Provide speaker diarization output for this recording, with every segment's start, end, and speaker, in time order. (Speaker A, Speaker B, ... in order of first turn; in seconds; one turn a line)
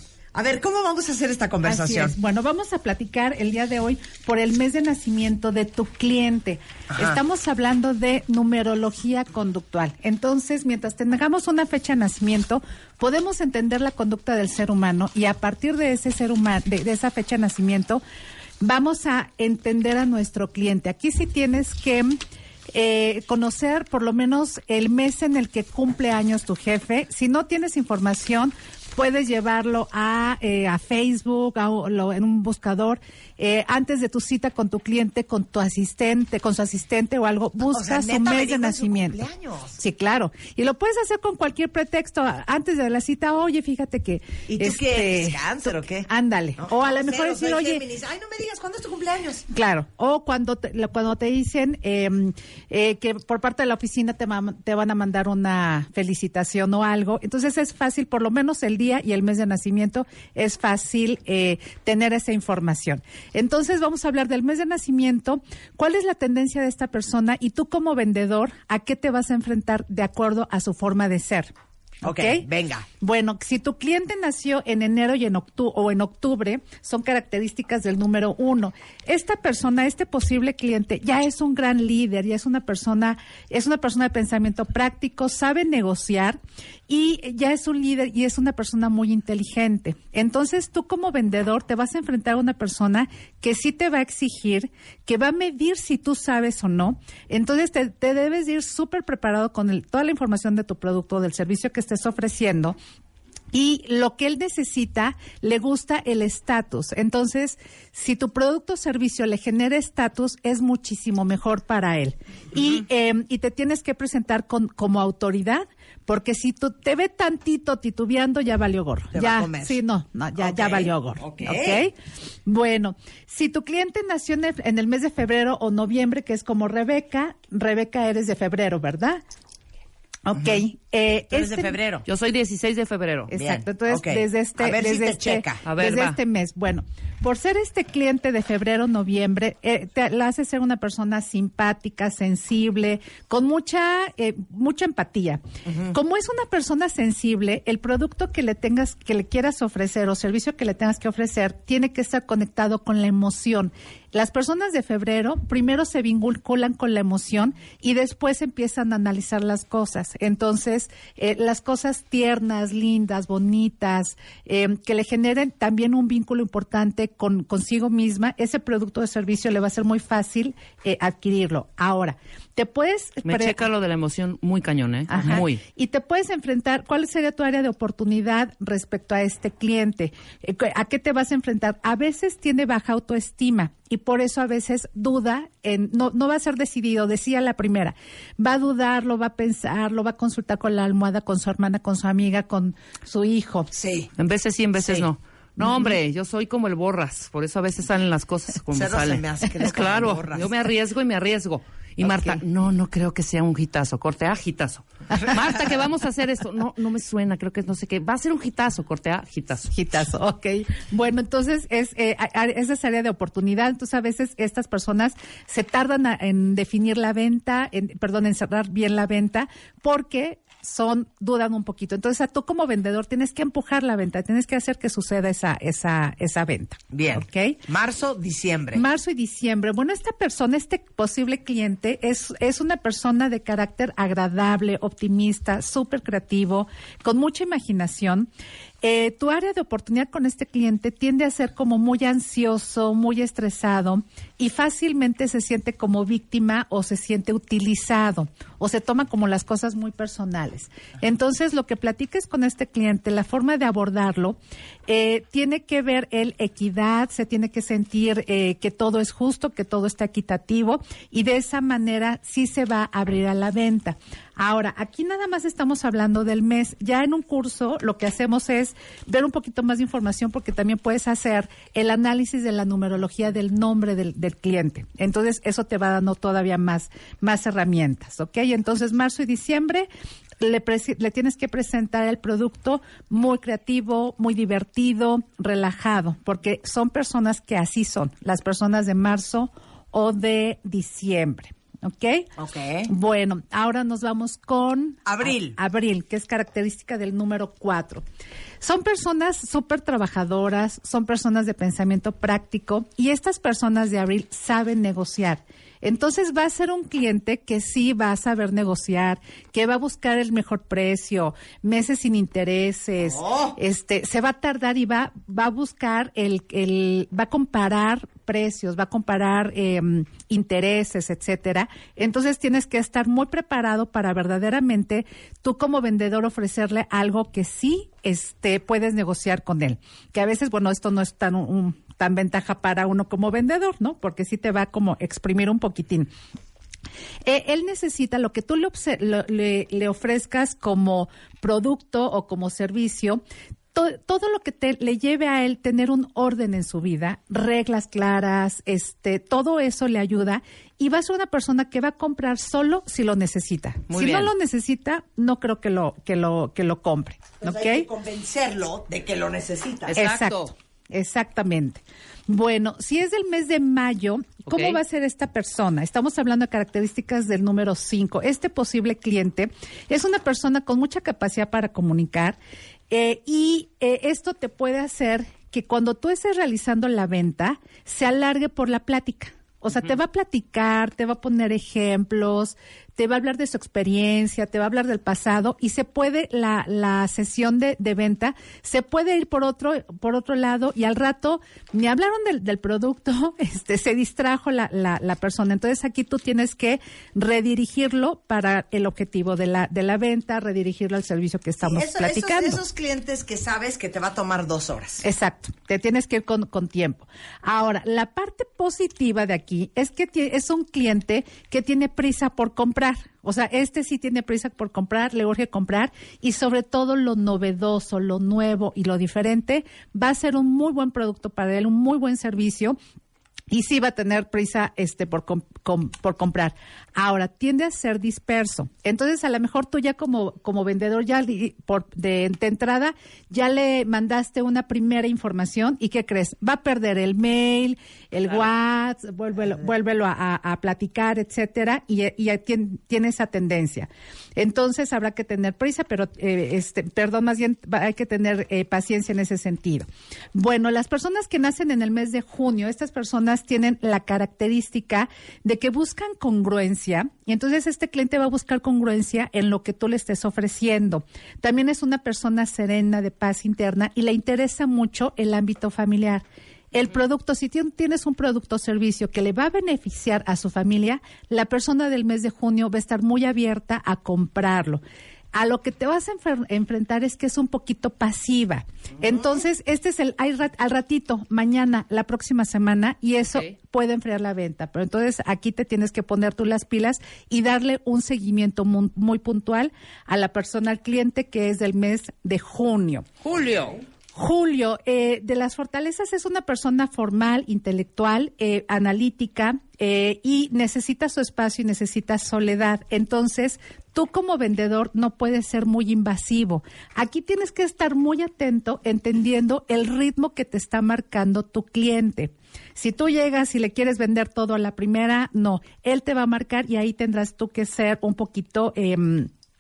Speaker A: 0.3-2.2
Speaker B: 1.6-18.0
Speaker A: 6.9-7.2
Speaker B: 18.6-22.2
Speaker B: 22.7-39.2
Speaker A: 37.7-39.8
Speaker B: 39.8-47.8
Speaker A: 44.5-49.5
Speaker B: 49.5-71.5
Speaker A: 72.0-72.9
Speaker B: 72.0-72.5
Speaker B: 73.0-102.8
Speaker B: 103.5-121.9
Speaker A: 119.1-119.8
Speaker A: 120.4-121.9
Speaker B: 122.5-129.2
Speaker B: 130.3-131.8
Speaker A: 131.3-132.1
Speaker C: 132.1-133.3
Speaker B: 133.3-173.6
Speaker A: 133.3-135.7
Speaker C: 135.7-136.2
Speaker A: 145.7-145.9
Speaker C: 173.2-175.6
Speaker B: 175.1-193.7
Speaker A: 193.7-194.1
Speaker C: 194.2-209.7
Speaker A: 194.8-195.1
Speaker A: 198.7-200.6
Speaker A: 202.0-202.4
Speaker B: 209.7-227.6
Speaker A: 226.9-228.8
Speaker B: 228.7-238.3
Speaker B: 238.8-279.9
Speaker B: 280.4-292.3
Speaker A: 292.4-292.9
Speaker B: 292.9-298.0
Speaker A: 295.1-295.6
Speaker B: 298.6-336.1
Speaker A: 313.0-313.6
Speaker B: 337.2-343.2
Speaker B: 343.7-357.9
Speaker C: 353.9-354.3
Speaker A: 357.4-360.0
Speaker C: 359.9-360.5
Speaker B: 359.9-372.4
Speaker C: 364.5-364.8
Speaker B: 372.9-402.6
Speaker A: 401.6-405.1
Speaker B: 405.0-422.8
Speaker B: 423.5-474.8
Speaker B: 475.3-493.1
Speaker C: 493.2-493.8
Speaker B: 494.1-519.3